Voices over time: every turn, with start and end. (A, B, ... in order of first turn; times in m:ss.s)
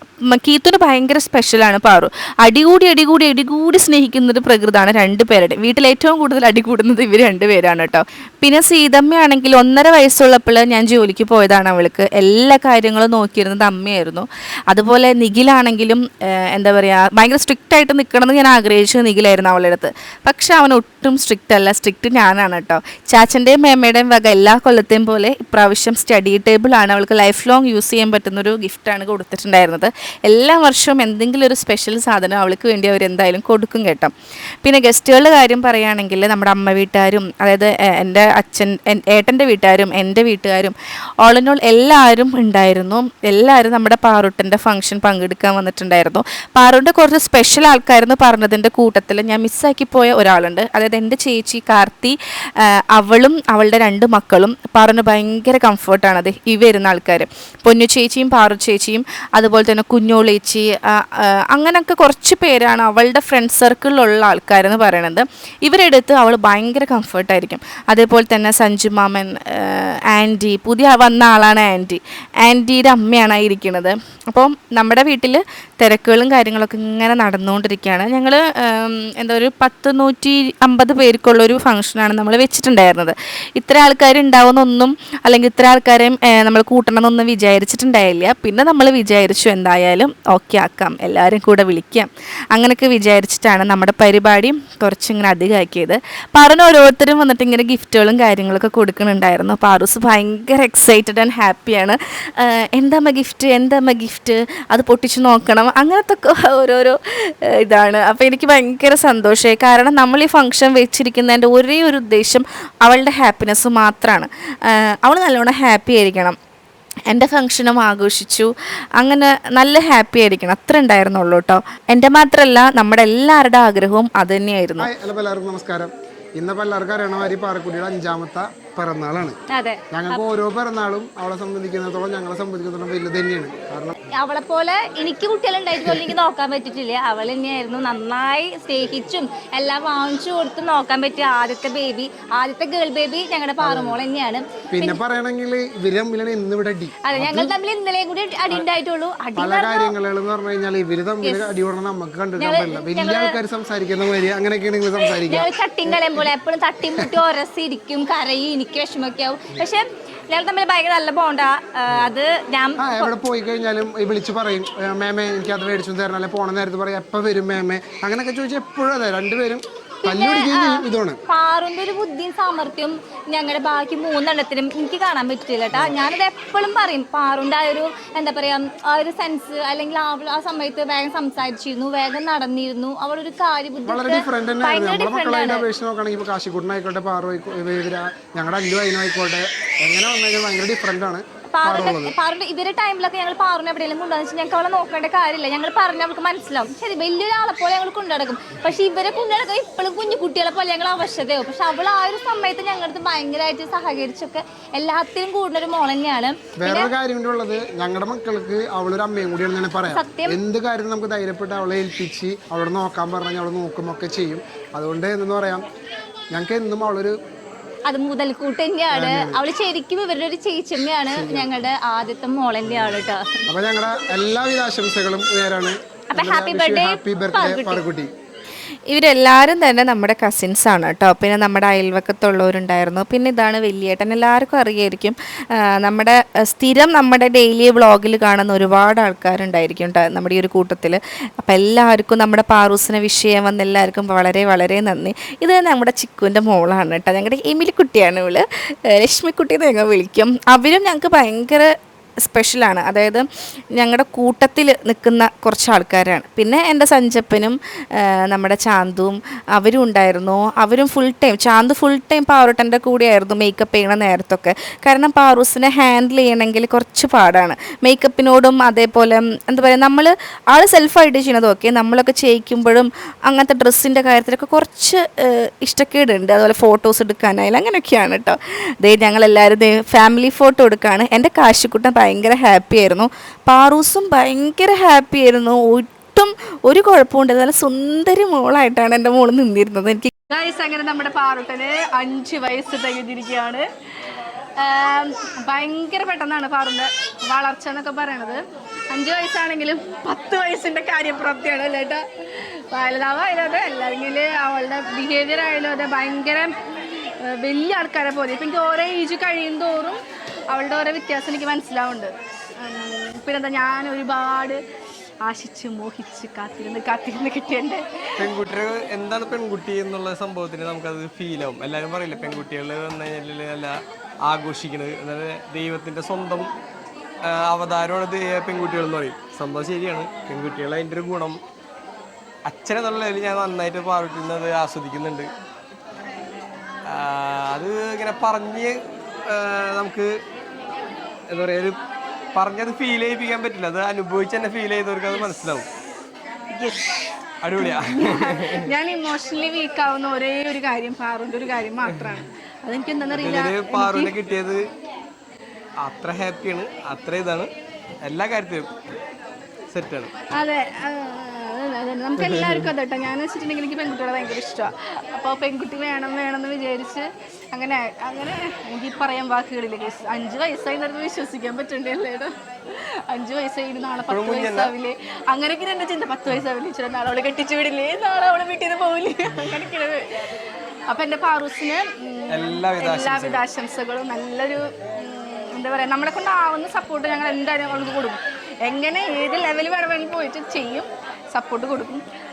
0:00.3-1:56.4 A
1:57.1-2:04.9 A
2:04.8-2:09.4 B
2:09.5-2:10.2 C
2:09.9-2:14.0 B
2:14.2-2:25.0 C
2:23.6-2:24.0 B
2:24.7-2:27.5 B
2:27.1-2:29.9 C
2:29.4-2:36.3 B
2:31.2-2:31.5 C
2:32.4-2:33.4 C
2:35.0-2:43.1 C
2:42.8-2:51.2 B
2:50.0-3:05.6 C
3:03.8-3:12.1 B
3:11.5-3:26.9 C
3:26.6-3:35.6 B
3:29.9-3:30.4 C
3:36.3-3:37.1 B
3:37.9-3:43.2 C
3:38.9-3:39.4 B
3:41.1-3:41.5 B
3:43.5-3:48.1 B
3:46.1-3:47.8 C
3:48.9-4:11.7 A
4:12.2-4:50.1 A
4:50.3-4:53.6 D
4:54.6-4:58.4 D
4:58.9-5:02.0 D
5:02.7-5:06.5 D
5:07.2-5:10.0 D
5:10.5-5:12.1 D
5:12.6-5:14.6 D
5:15.2-5:18.3 D
5:18.2-5:26.5 E
5:27.3-5:31.4 E
5:32.4-5:35.3 E
5:36.9-5:38.7 E
5:39.3-5:40.1 E
5:41.3-5:41.8 E
5:42.3-5:45.7 E
5:46.5-5:46.9 D
5:47.4-5:48.7 E
5:47.5-5:54.1 D
5:51.8-5:52.2 E
5:53.1-5:54.6 E
5:55.8-5:57.5 E
5:58.0-5:58.7 E
5:59.7-6:00.1 E
6:00.3-6:12.3 D
6:02.2-6:02.7 E
6:13.1-6:20.0 D
6:14.1-6:14.7 E
6:20.9-6:32.0 D
6:22.3-6:23.4 E